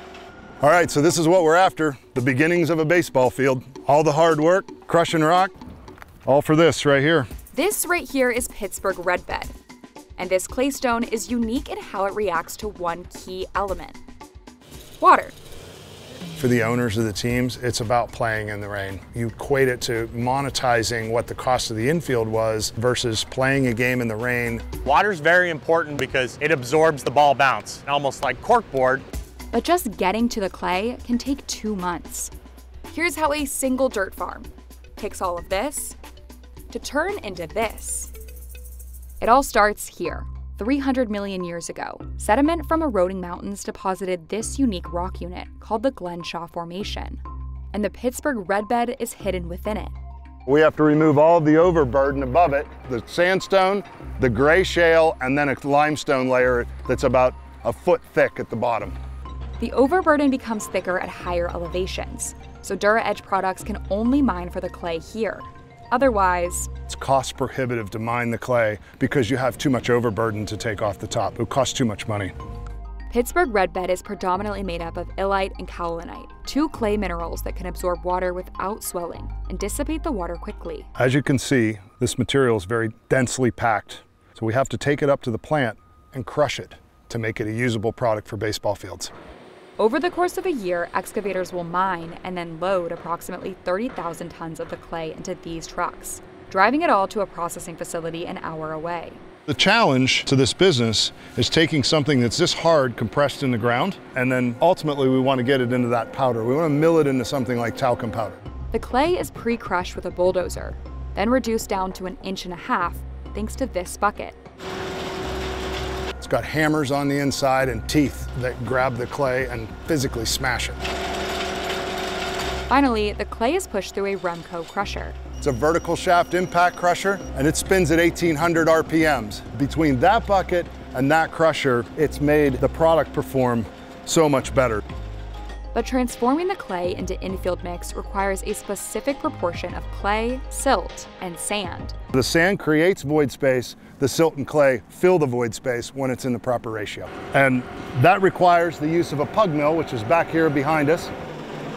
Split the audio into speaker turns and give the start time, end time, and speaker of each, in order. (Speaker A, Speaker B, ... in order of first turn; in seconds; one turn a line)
Speaker A: 0.6-5.5
Speaker A: 6.3-7.3
Speaker B: 7.5-9.5
Speaker B: 10.2-14.0
Speaker B: 15.0-15.4
Speaker A: 16.4-24.6
Speaker C: 24.8-29.1
Speaker B: 29.5-32.3
Speaker B: 32.9-36.0
Speaker B: 36.7-38.1
Speaker B: 39.2-47.2
Speaker B: 47.7-49.9
Speaker A: 50.5-58.9
Speaker B: 59.6-66.7
Speaker A: 66.9-72.3
Speaker B: 73.1-80.9
Speaker A: 81.0-89.1
Speaker B: 89.8-99.2
Speaker A: 99.5-108.4
Speaker B: 108.7-114.4
Speaker A: 116.2-120.8
Speaker B: 122.7-125.2
Speaker A: 125.4-134.8
Speaker B: 135.7-141.9
Speaker A: 142.1-151.1